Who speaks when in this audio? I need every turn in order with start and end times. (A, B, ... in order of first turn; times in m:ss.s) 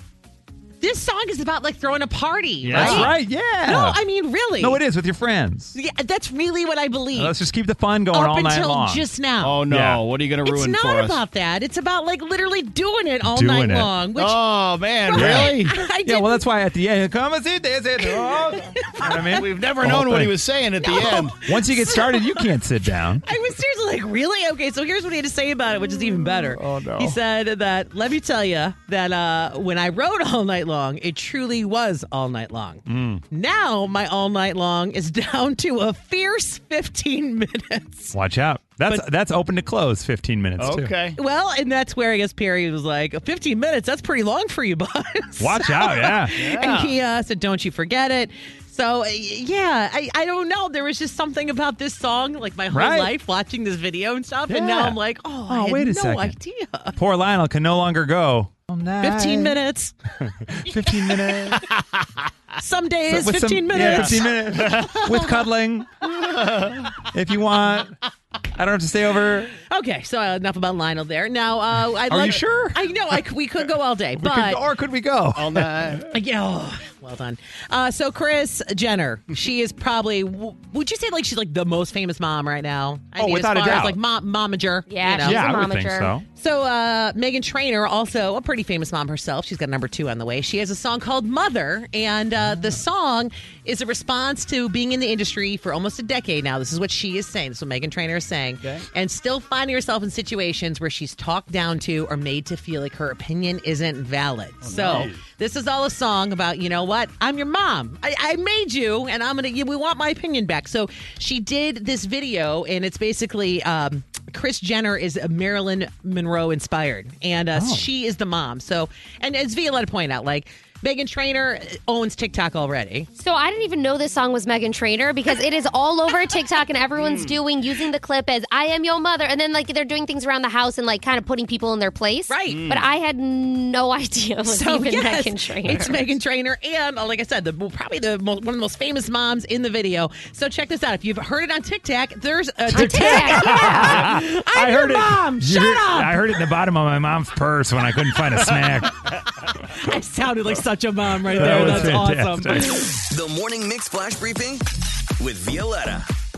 0:00.8-0:04.8 A
0:02.6-0:03.1 B
0:02.7-0:04.0 C
0:04.6-0:05.8 C
0:05.8-0:07.3 A
0:07.1-0:09.1 C
0:08.1-0:09.7 A
0:09.4-0:11.2 B
0:09.7-0:10.0 C
0:10.4-0:14.4 A
0:13.2-0:14.0 C
0:14.2-0:15.8 B
0:15.0-0:16.4 A
0:15.1-0:20.4 C
0:18.0-0:19.5 A
0:19.2-0:21.4 B
0:20.8-0:22.5 A
0:21.4-0:23.2 C
0:23.2-0:38.1 A
0:26.6-0:27.2 B
0:26.7-0:27.1 C
0:32.9-0:33.2 C
0:38.1-0:41.0 C
0:40.6-0:41.2 B
0:41.2-0:57.0 A
0:45.4-0:46.7 C
0:46.4-0:46.9 B
0:52.7-0:53.1 C
0:54.5-0:56.4 C
0:56.9-0:59.6 C
0:59.0-0:59.9 A
1:00.2-1:01.7 C
1:00.7-1:01.7 A
1:01.7-1:02.0 B
1:02.6-1:05.4 A
1:03.1-1:08.0 C
1:03.7-1:05.2 B
1:06.1-1:06.9 B
1:08.5-1:09.6 C
1:09.7-1:14.6 A
1:12.0-1:13.2 C
1:14.2-1:16.1 C
1:15.4-1:16.1 B
1:16.1-1:25.6 A
1:23.2-1:24.0 C
1:24.9-1:26.2 D
1:25.2-1:26.2 C
1:26.3-2:03.1 A
1:32.4-1:32.8 C
1:44.6-1:45.2 B
1:44.7-1:45.2 C
1:57.6-1:57.9 C
2:03.2-2:16.1 D
2:07.0-2:07.4 B
2:12.3-2:12.7 A
2:12.5-2:12.9 B
2:14.4-2:26.4 A
2:22.7-2:29.0 C
2:22.7-2:24.1 D
2:29.7-2:33.0 A
2:31.3-2:33.0 C
2:31.4-2:31.9 B
2:33.1-2:34.6 E
2:35.2-2:36.1 E